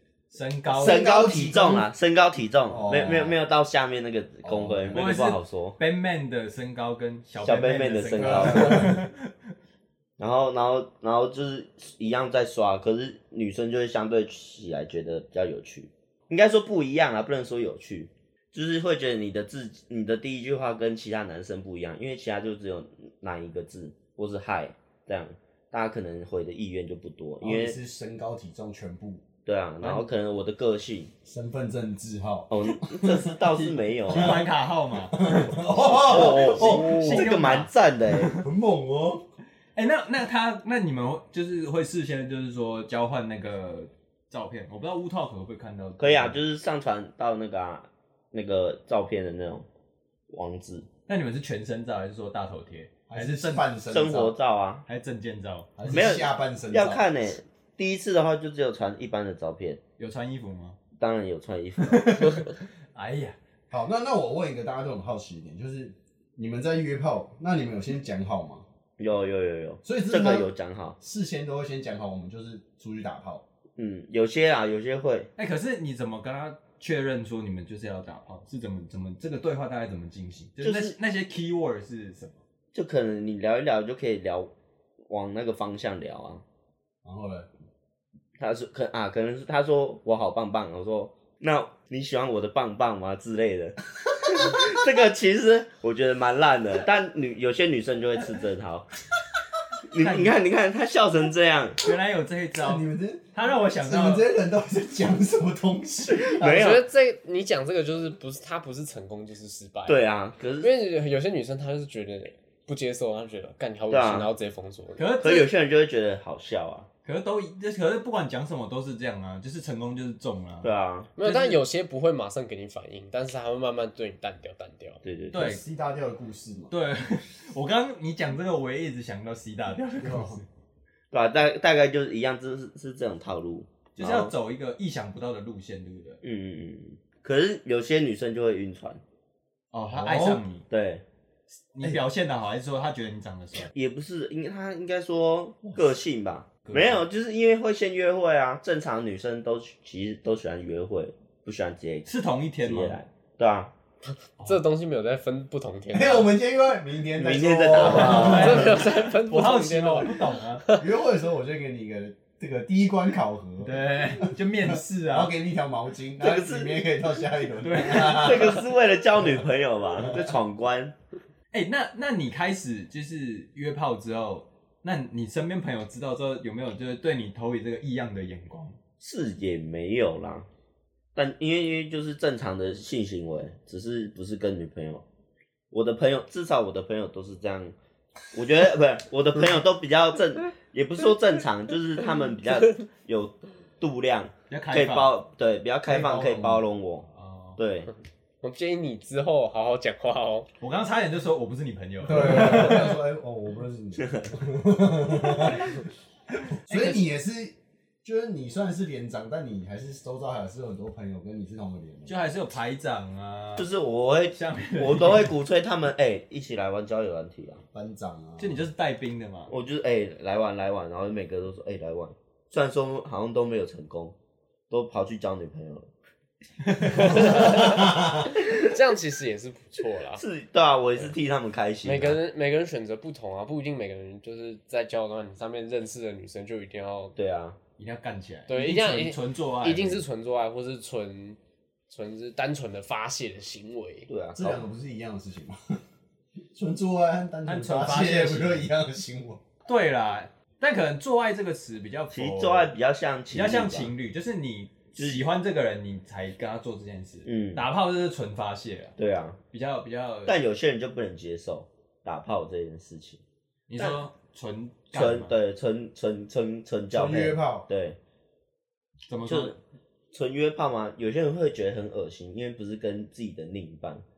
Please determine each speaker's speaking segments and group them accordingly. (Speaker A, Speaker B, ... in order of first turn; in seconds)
Speaker A: 0.3-1.1, 4.9-9.3, 33.4-38.5, 39.8-46.4, 51.1-53.7, 54.9-56.0, 60.0-60.8, 61.9-63.4, 75.4-82.4, 100.0-100.4, 101.8-104.3, 115.0-115.5, 117.0-121.6, 125.3-125.6, 126.7-130.5, 134.0-136.2, 139.7-140.7, 141.7-143.7, 145.7-146.0, 146.6-147.0, 152.1-153.0, 157.7-160.7, 163.6-165.3, 167.6-168.6, 171.5-178.8, 194.5-195.1, 197.1-197.6, 200.6-202.9, 205.5-205.8, 206.3-207.0, 212.1-213.7, 214.3-215.3, 218.4-219.5, 237.8-240.0, 247.5-248.7, 249.7-252.7, 253.3-258.9, 259.5-260.4, 263.7-265.4, 269.1-269.6
Speaker B: 0.7-1.9, 2.7-3.4, 4.4-5.2, 8.2-9.0, 27.4-29.2, 31.2-33.3, 34.1-34.4, 35.0-37.5, 38.3-39.2, 53.1-54.3, 55.8-57.0, 63.7-68.7, 69.8-73.4, 87.0-87.5, 94.4-94.7, 102.6-106.8, 125.3-126.7, 130.0-130.4, 139.9-140.4, 155.9-158.8, 160.8-168.7, 170.0-170.4, 195.8-196.6, 202.0-205.8, 206.7-212.2, 217.7-218.7, 227.6-228.2, 244.4-245.6, 246.5-249.4, 266.9-267.7
Speaker C: 0.7-5.8, 7.4-9.0, 10.2-27.8, 29.4-31.1, 32.5-34.4, 36.0-38.3, 46.0-49.7, 50.3-50.9, 53.9-54.9, 55.9-59.8, 61.0-62.4, 69.0-71.0, 73.8-75.3, 80.6-81.0, 82.7-84.5, 85.1-86.4, 88.4-98.9, 99.9-101.9, 106.1-106.8, 109.9-110.7, 113.9-114.3, 115.2-116.9, 120.6-121.1, 125.0-125.5, 131.1-134.3, 136.2-139.0, 140.7-141.0, 143.7-153.7, 157.2-158.7, 166.2-166.8, 168.0-170.9, 179.0-180.5, 181.2-185.0, 185.7-187.8, 188.3-197.9, 204.0-204.3, 213.6-217.6, 219.5-224.2, 224.7-225.9, 226.9-227.8, 230.1-232.2, 237.2-237.6, 244.1-244.6, 252.1-253.9, 255.0-255.3, 257.2-257.6, 259.0-259.4, 260.3-263.2, 264.9-268.0, 269.3-269.6, 270.1-274.0
Speaker D: 106.5-110.0, 110.6-115.0, 121.2-125.0, 154.4-156.3, 158.2-160.8, 198.4-200.5, 226.8-230.2, 231.8-237.2, 238.5-241.4, 241.9-244.1